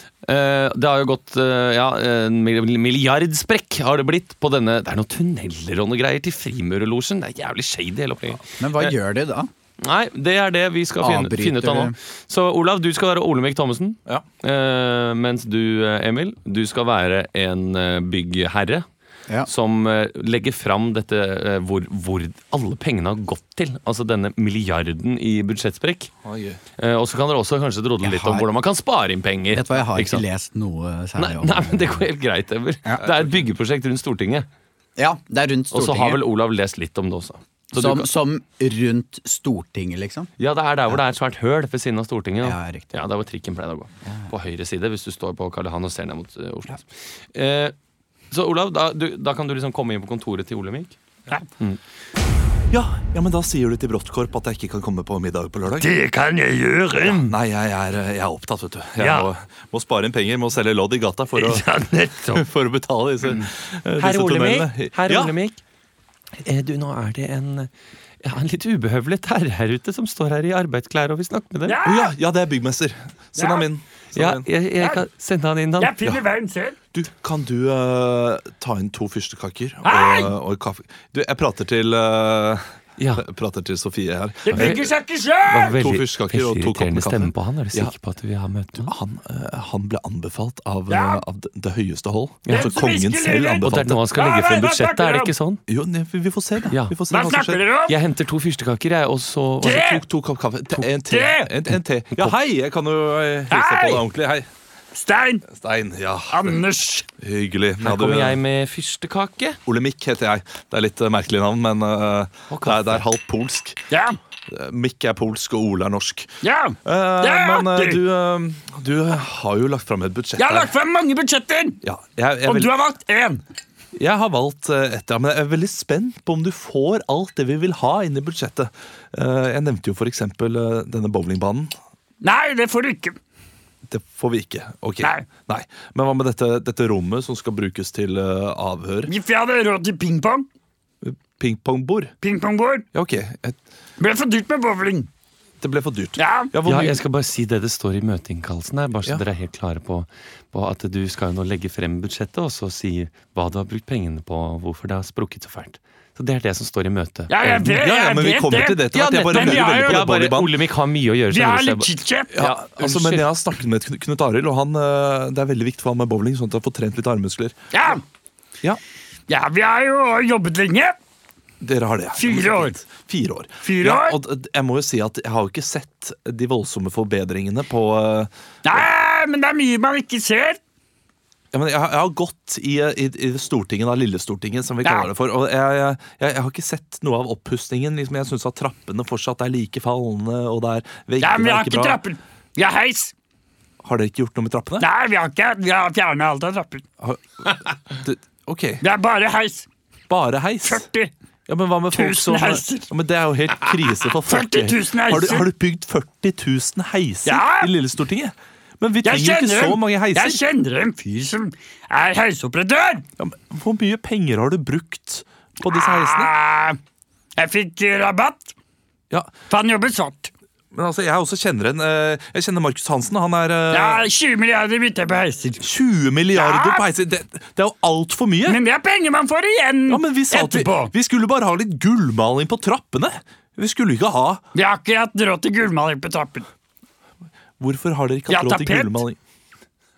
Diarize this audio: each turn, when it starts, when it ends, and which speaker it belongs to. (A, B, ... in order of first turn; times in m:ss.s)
0:00.2-0:08.9 A
0:08.6-0:09.5 B
0:09.8-0:18.8 A
0:11.0-0:11.9 B
0:19.4-0:26.1 A
0:26.2-0:26.6 C
0:26.8-0:30.2 A
0:28.0-0:28.5 B
0:29.5-0:32.0 B
0:31.2-0:34.5 A
0:33.0-0:33.3 C
0:35.0-0:36.2 B
0:35.7-0:38.1 A
0:37.7-0:40.3 B
0:40.4-0:47.7 A
0:42.4-0:42.9 B
0:48.3-0:51.0 A
0:52.7-0:55.9 C
0:55.8-0:57.3 D
0:57.0-1:01.7 C
0:59.0-0:59.3 D
1:01.4-1:02.4 A
1:02.3-1:05.3 C
1:04.0-1:05.6 A
1:06.4-1:07.7 A
1:08.2-1:11.8 A
1:11.6-1:12.1 D
1:11.8-1:14.5 C
1:13.4-1:13.7 D
1:14.1-1:16.0 A
1:15.8-1:16.8 D
1:16.9-1:22.6 C
1:19.8-1:20.3 D
1:23.0-1:23.2 A
1:23.2-1:24.9 C
1:24.4-1:25.8 D
1:24.5-1:24.8 A
1:25.4-1:27.9 C
1:25.5-1:28.9 A
1:28.8-1:34.0 C
1:30.9-1:31.2 D
1:32.4-1:32.7 A
1:32.5-1:35.3 D
1:33.6-1:35.6 A
1:35.7-1:37.7 C
1:36.7-1:37.0 A
1:37.1-1:38.0 D
1:37.9-1:39.9 A
1:39.6-1:40.0 D
1:39.6-1:44.5 C
1:41.1-1:41.5 D
1:43.5-1:44.0 D
1:44.9-1:45.4 D
1:45.5-1:46.6 C
1:46.3-1:47.0 D
1:47.2-1:48.4 C
1:47.8-1:49.6 A
1:49.6-1:53.8 C
1:52.5-1:53.0 A
1:53.9-1:54.2 D
1:54.5-1:56.3 C
1:56.4-1:58.0 D
1:56.8-2:00.7 C
2:00.4-2:01.8 D
2:01.8-2:02.8 C
2:02.4-2:03.4 D
2:03.9-2:11.7 C
2:12.2-2:13.2 D
2:13.9-2:19.1 C
2:19.0-2:20.5 D
2:21.0-2:22.1 C
2:22.2-2:22.9 D
2:22.9-2:23.6 C
2:24.0-2:25.1 D
2:25.6-2:27.0 C
2:26.2-2:26.5 D
2:26.6-2:37.7 A
2:37.3-2:40.1 D
2:37.6-2:40.5 C
2:38.9-2:43.3 A
2:41.3-2:42.4 D
2:42.3-2:47.5 C
2:47.7-2:48.0 D
2:49.3-2:51.0 D
2:51.6-2:58.8 C
2:52.2-2:52.8 D
2:53.6-2:54.2 D
2:58.6-3:00.6 D
3:01.5-3:12.0 C
3:11.2-3:13.1 D
3:13.8-3:14.9 C
3:14.8-3:16.8 D
3:17.0-3:18.8 C
3:18.8-3:19.7 D
3:20.1-3:20.9 C
3:20.6-3:21.1 D
3:21.5-3:30.4 C
3:21.9-3:22.9 D
3:24.2-3:25.5 D
3:27.2-3:27.7 D
3:29.0-3:33.0 D
3:33.2-3:36.3 C
3:35.6-3:36.8 D
3:37.4-3:38.5 D
3:39.5-3:40.3 D
3:40.7-3:44.1 C
3:43.7-3:45.6 D
3:45.6-3:48.6 C
3:46.3-3:46.8 D
3:48.4-3:50.9 D
3:49.9-3:54.4 C
3:54.5-3:56.5 D
3:57.6-3:59.2 C
3:58.3-3:59.0 D